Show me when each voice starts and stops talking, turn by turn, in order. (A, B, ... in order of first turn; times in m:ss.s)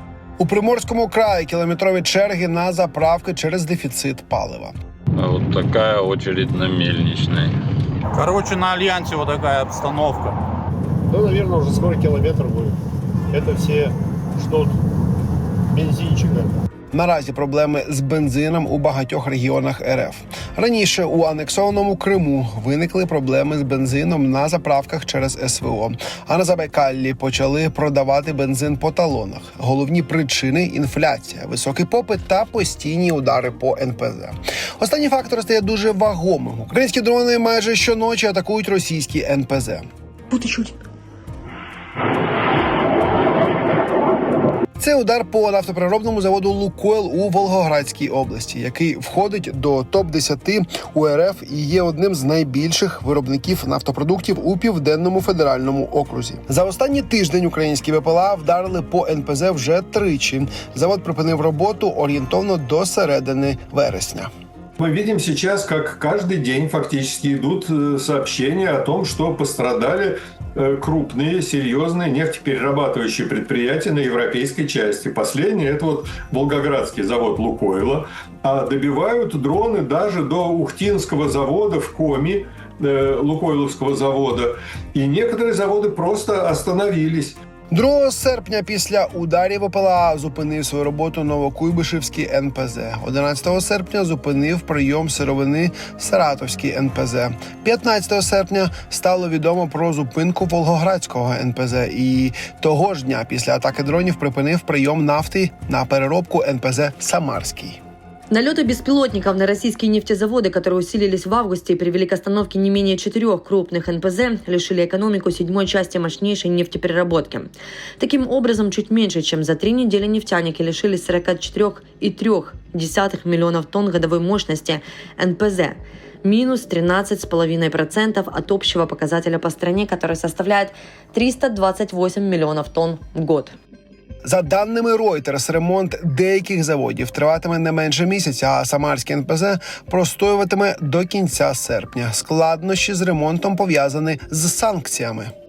0:00.4-0:04.7 A
0:05.2-0:07.5 B
0:08.2-0:10.3 C
0:11.1-0:12.7 D
0:13.4-0:14.7 D
0:15.8-0:16.5 D
0:16.9-0:39.8 A
0:44.8-1:04.3 A
1:04.8-1:27.4 E
1:27.7-1:47.8 A
1:48.3-2:13.6 F
2:14.2-2:25.3 A